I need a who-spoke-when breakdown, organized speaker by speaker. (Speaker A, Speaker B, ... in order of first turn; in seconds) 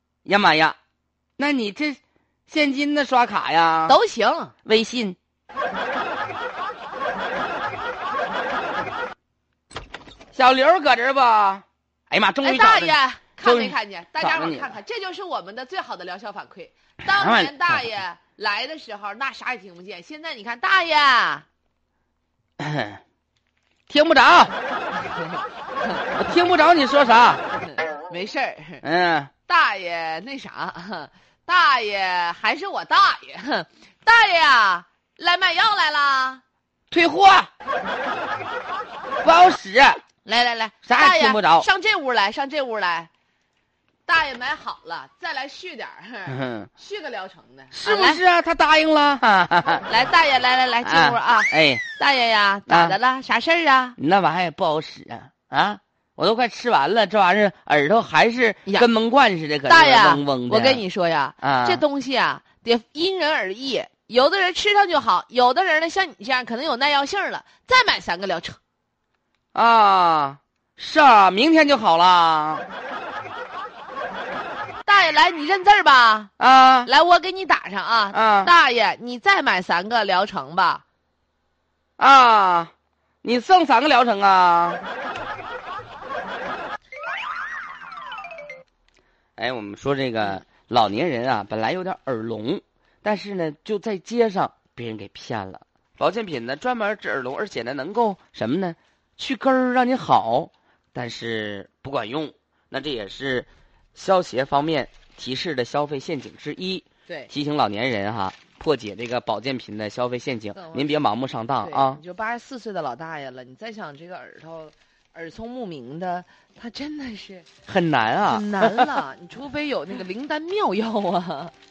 Speaker A: 0.2-0.8, 1.4-4.0, 4.7-5.2, 10.3-14.7, 17.0-17.8, 22.6-23.0, 23.9-24.5, 26.1-27.4, 28.8-29.3, 36.9-37.5, 39.2-40.0, 40.8-41.7, 46.3-46.7, 47.7-49.9, 50.8-51.8, 52.7-53.0, 54.0-60.8, 61.4-61.8, 69.5-72.7, 76.4-76.9, 78.1-78.5, 82.0-82.7, 83.2-84.8, 89.4-112.0, 117.7-118.9
Speaker B: 3.9-4.5, 12.4-21.4, 25.1-25.4, 27.7-28.8, 29.5-36.4, 40.2-43.1, 44.0-48.2, 49.8-54.0, 59.7-68.6, 74.8-76.3, 76.8-80.8, 110.5-110.9, 111.6-117.5, 118.3-121.5